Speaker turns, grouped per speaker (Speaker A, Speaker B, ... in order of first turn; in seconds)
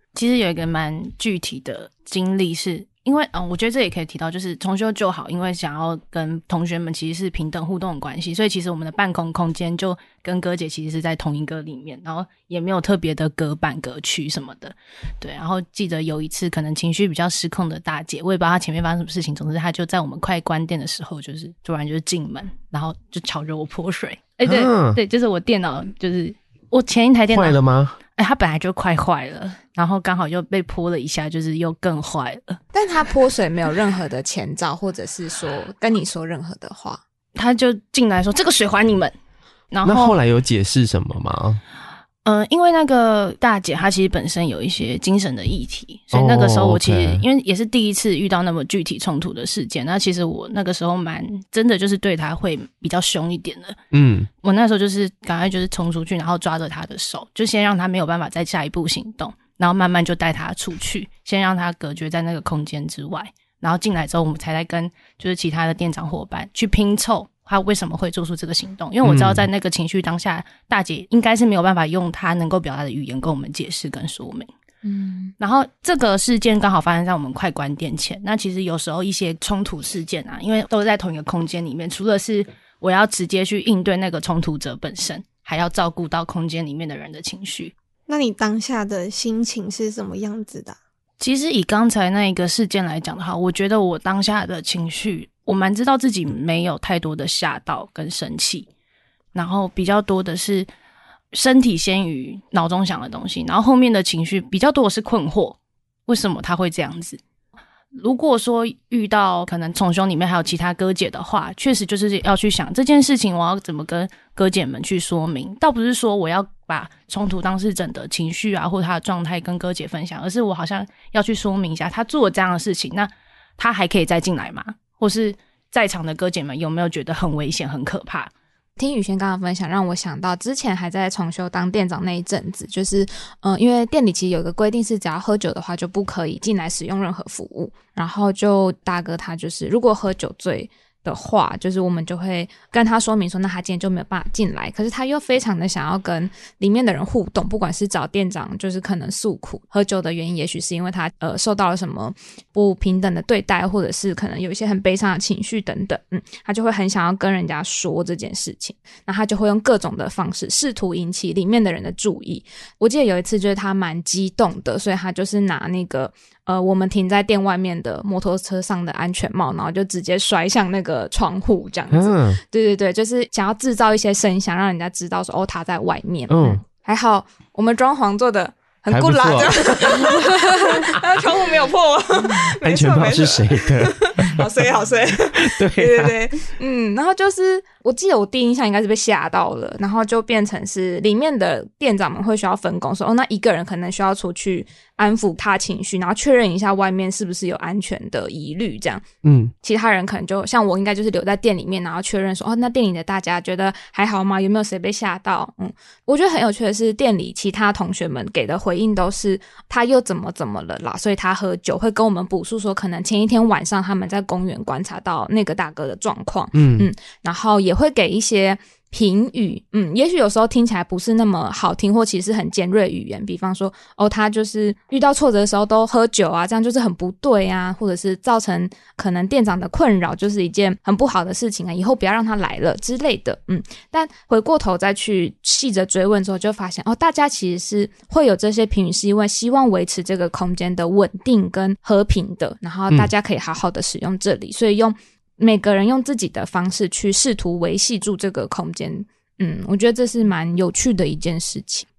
Speaker A: 0.1-27.6, 28.1-32.6, 37.3-39.1, 39.7-40.2, 42.2-53.8, 54.4-74.5, 75.4-87.7, 91.2-98.7, 99.3-100.7, 101.3-107.2, 108.0-128.3
Speaker B: 24.4-25.0, 27.3-28.0, 39.8-41.6, 46.1-47.2, 53.9-54.3, 69.0-69.5, 171.9-172.4, 176.3-176.6, 178.9-180.1, 182.6-184.4, 185.4-186.1, 199.2-199.5, 216.5-216.9
Speaker C: 32.7-37.0, 74.8-75.3, 128.8-199.1, 199.6-251.8
Speaker D: 88.1-90.8